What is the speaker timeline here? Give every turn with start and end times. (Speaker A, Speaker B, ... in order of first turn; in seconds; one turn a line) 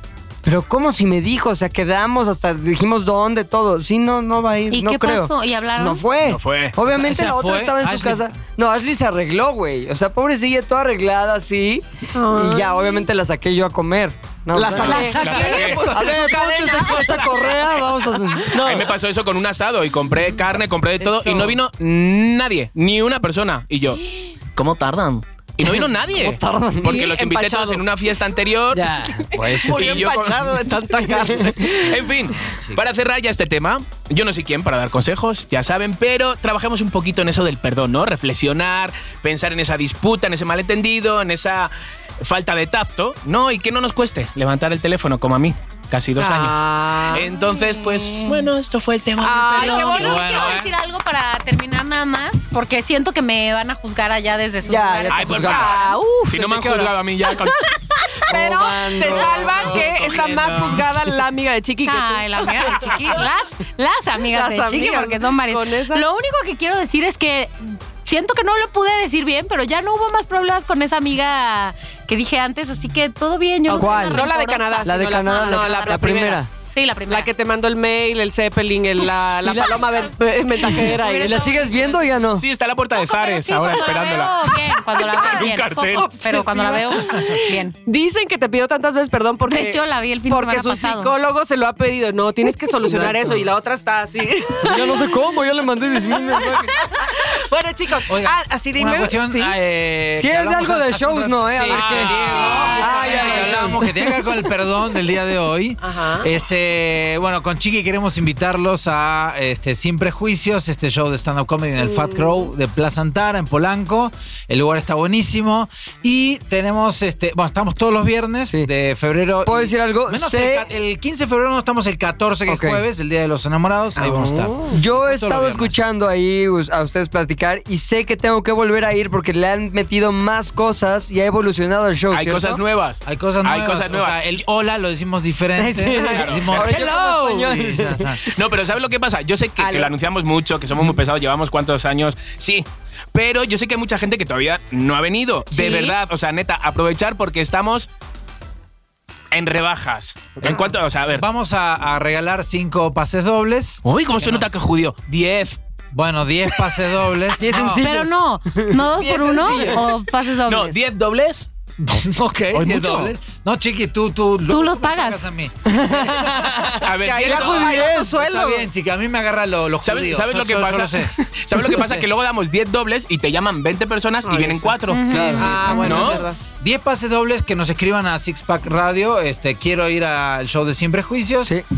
Speaker A: 0.4-18.9
Speaker B: 4.7-6.0
Speaker C: 6.2-6.8
Speaker D: 6.8-8.3
Speaker E: 12.1-13.0
Speaker E: 14.5-17.6
Speaker C: 14.7-16.2
Speaker B: 14.8-15.7
Speaker D: 15.2-15.9
Speaker C: 18.5-24.0
Speaker E: 21.0-21.6
Speaker C: 24.6-50.1
Speaker A: 25.6-27.0
Speaker E: 26.8-27.8
Speaker A: 28.7-30.3
Speaker E: 29.5-32.0
Speaker A: 31.0-31.6
Speaker D: 32.3-32.8
Speaker E: 46.2-47.4
Speaker E: 49.2-50.5
Speaker B: 49.5-55.8
Speaker D: 50.0-50.7
Speaker A: 54.6-55.8
Speaker C: 55.1-57.7
Speaker E: 55.4-63.3
Speaker A: 58.3-59.9
Speaker C: 58.9-61.1
Speaker B: 61.8-77.3
Speaker E: 64.2-66.0
Speaker E: 73.7-76.4
Speaker A: 73.8-74.3
Speaker A: 74.8-76.5
Speaker E: 77.1-81.6
Speaker A: 79.4-79.9
Speaker B: 80.8-82.0
Speaker A: 81.1-82.4
Speaker C: 82.3-86.1
Speaker B: 83.0-87.8
Speaker E: 85.9-95.1
Speaker B: 89.5-91.1
Speaker A: 92.8-93.5
Speaker A: 94.6-96.8
Speaker E: 96.0-99.6
Speaker D: 98.1-125.7
Speaker A: 100.2-104.3
Speaker C: 101.7-103.2
Speaker E: 101.7-103.7
Speaker E: 105.8-106.3
Speaker A: 119.4-120.7
Speaker A: 122.5-122.8
Speaker C: 124.0-124.5
Speaker A: 124.6-132.6
Speaker C: 132.1-134.3
Speaker D: 133.0-138.2
Speaker A: 135.5-138.2
Speaker C: 135.9-136.7
Speaker E: 136.0-136.3
Speaker C: 138.2-147.9
Speaker E: 139.6-139.9
Speaker E: 145.5-145.9
Speaker C: 149.3-151.2
Speaker D: 150.4-154.4
Speaker C: 153.8-155.6
Speaker D: 155.9-157.8
Speaker A: 157.4-158.8
Speaker B: 157.6-160.8
Speaker E: 159.0-159.9
Speaker C: 160.4-161.5
Speaker D: 161.8-172.1
Speaker C: 162.5-163.1
Speaker B: 164.5-165.2
Speaker A: 165.6-166.5
Speaker C: 166.8-167.8
Speaker E: 167.0-168.7
Speaker A: 167.6-168.2
Speaker C: 169.8-176.2
Speaker E: 174.2-176.4
Speaker B: 174.9-175.9
Speaker D: 175.1-181.5
Speaker A: 175.1-175.4